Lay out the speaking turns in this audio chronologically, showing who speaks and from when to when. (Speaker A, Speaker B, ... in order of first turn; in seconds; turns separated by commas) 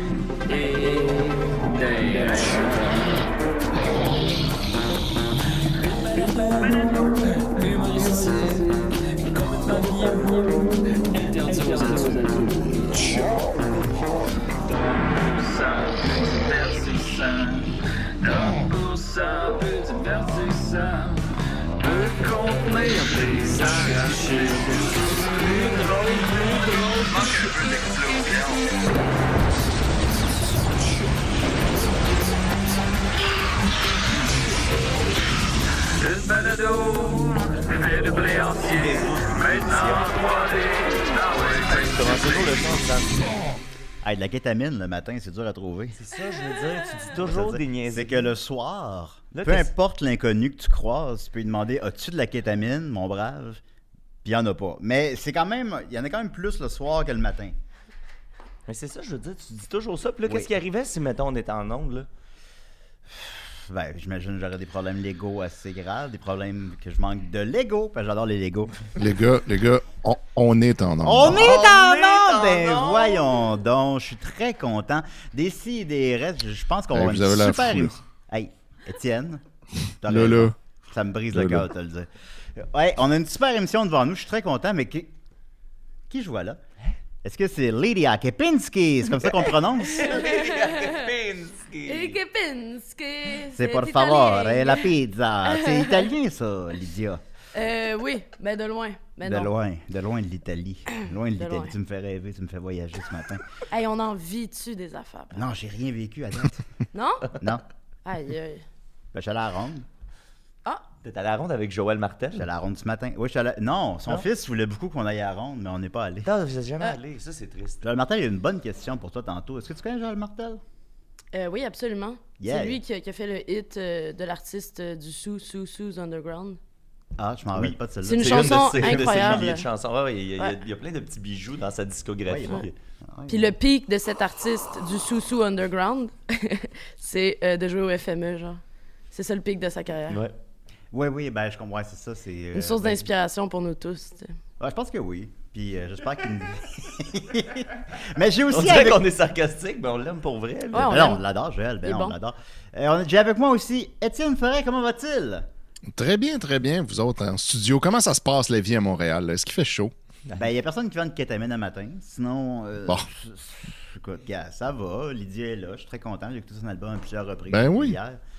Speaker A: 0.5-3.2, Speaker A: 5.8-13.9, Speaker A: 14.7-21.3, Speaker A: 21.8-28.8, Speaker A: 35.9-42.5, Speaker B: 38.6-40.3, Speaker B: 41.7-43.4, Speaker C: 44.0-46.0, Speaker B: 46.0-48.3, Speaker C: 47.0-53.6, Speaker B: 49.3-49.7, Speaker C: 54.2-57.5, Speaker B: 58.7-62.1, Speaker C: 63.1-68.9, Speaker D: 69.0-71.5, Speaker C: 71.0-79.4, Speaker B: 71.2-73.2, Speaker D: 76.9-78.0, Speaker C: 80.0-85.1, Speaker D: 80.0-80.5, Speaker D: 81.3-81.7, Speaker C: 86.1-86.6, Speaker C: 87.2-90.2, Speaker B: 89.9-92.2, Speaker E: 90.1-91.1, Speaker E: 91.8-94.9, Speaker C: 93.6-97.2, Speaker E: 95.4-96.1, Speaker E: 97.5-99.5, Speaker C: 99.2-103.4, Speaker E: 101.3-101.7, Speaker E: 103.7-105.5, Speaker C: 105.3-106.6, Speaker E: 106.9-107.4, Speaker E: 108.0-108.6, Speaker C: 109.1-109.8, Speaker B: 111.0-112.5, Speaker C: 112.3-116.3, Speaker B: 116.2-117.8, Speaker C: 117.8-120.6, Speaker E: 121.3-126.6, Speaker C: 122.4-122.8, Speaker C: 127.2-129.4, Speaker B: 127.5-132.7, Speaker E: 128.0-129.7, Speaker C: 132.3-133.5, Speaker E: 133.3-138.6, Speaker E: 139.1-140.2, Speaker C: 140.9-143.1, Speaker E: 142.5-144.3, Speaker C: 144.6-149.0, Speaker B: 148.5-151.1, Speaker E: 150.7-151.2, Speaker C: 150.8-155.5, Speaker E: 151.8-152.2, Speaker D: 155.9-159.9, Speaker C: 160.4-168.2, Speaker D: 167.5-168.0